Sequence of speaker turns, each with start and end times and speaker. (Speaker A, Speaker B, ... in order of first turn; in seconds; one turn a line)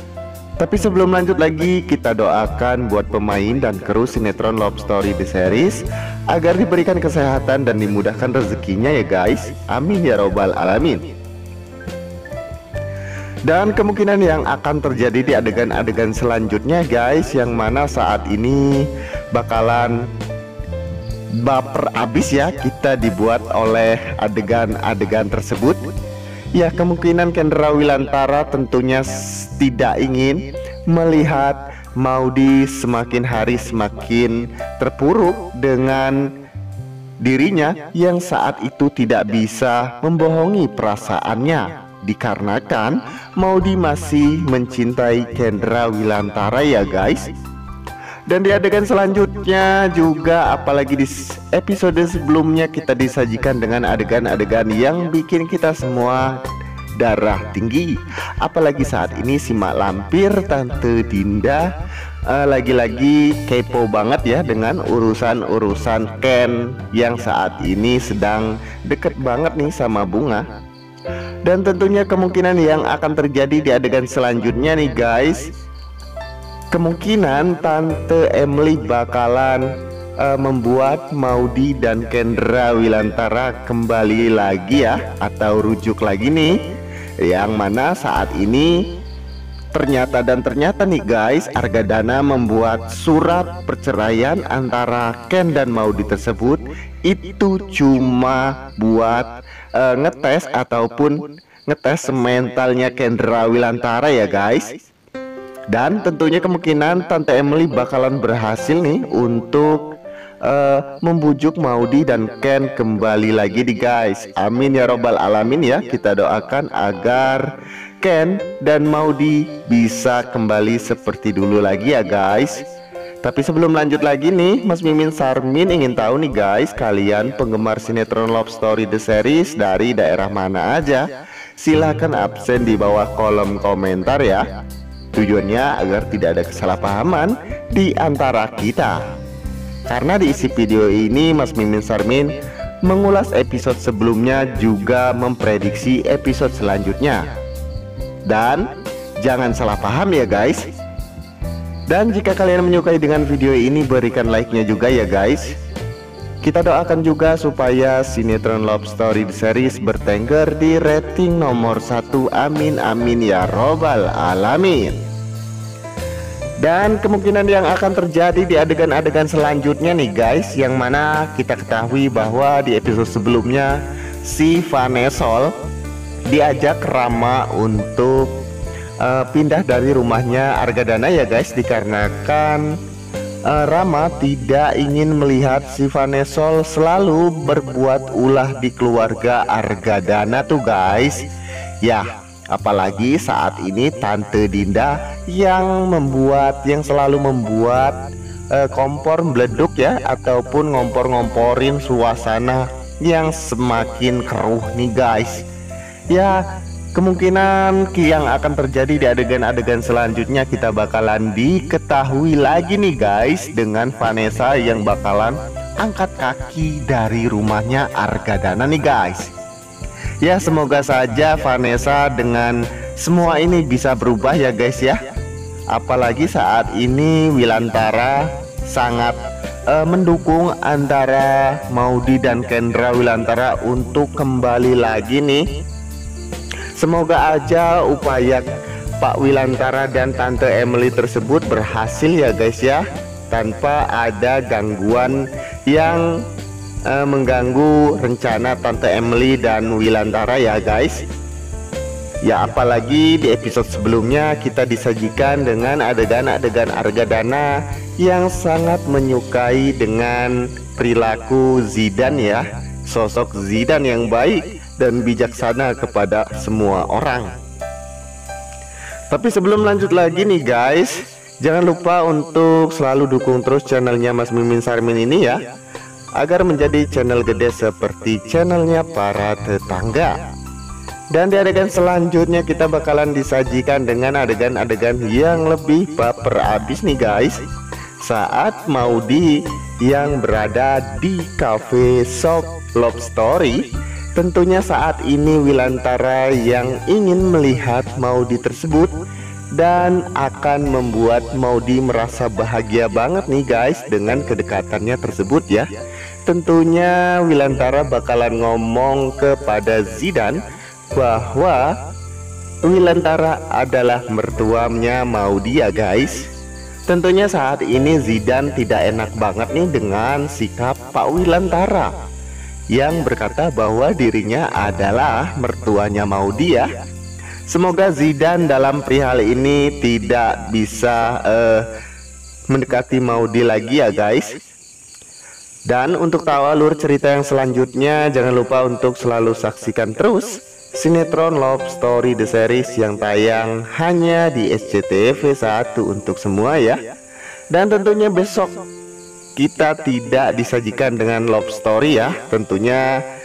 Speaker A: 0.6-11.1
Speaker A: 13.4-20.0
Speaker A: 21.4-25.9
Speaker A: 26.6-36.2
Speaker A: 37.2-47.3
Speaker A: 48.3-56.4
Speaker A: 57.0-61.7
Speaker A: 62.3-70.4
Speaker A: 71.4-75.5
Speaker A: 76.7-79.7
Speaker A: 80.2-86.6
Speaker A: 87.2-88.8
Speaker A: 89.7-104.8
Speaker A: 105.7-117.5
Speaker A: 118.0-122.7
Speaker A: 123.2-131.0
Speaker A: 131.6-134.4
Speaker A: 135.1-139.0
Speaker A: 139.9-147.3
Speaker A: 148.3-150.7
Speaker A: 151.9-155.5
Speaker A: 156.4-165.0
Speaker A: 166.6-175.5
Speaker A: 176.3-178.3
Speaker A: 179.0-182.7
Speaker A: 183.5-191.2
Speaker A: 191.8-205.4
Speaker A: 206.1-206.4
Speaker A: 206.9-219.3
Speaker A: 220.2-225.0
Speaker A: 225.7-229.2
Speaker A: 229.7-235.4
Speaker A: 236.8-238.4
Speaker A: 239.0-246.2
Speaker A: 246.9-251.0
Speaker A: 252.2-267.3
Speaker A: 269.1-275.4
Speaker A: 276.2-280.1
Speaker A: 281.1-287.4
Speaker A: 288.0-298.9
Speaker A: 299.6-305.7
Speaker A: 306.2-310.4
Speaker A: 310.9-311.7
Speaker A: 312.6-316.2
Speaker A: 316.9-321.9
Speaker A: 322.7-326.7
Speaker A: 327.5-331.7
Speaker A: 332.5-334.4
Speaker A: 335.7-346.8
Speaker A: 347.5-348.6
Speaker A: 349.4-352.9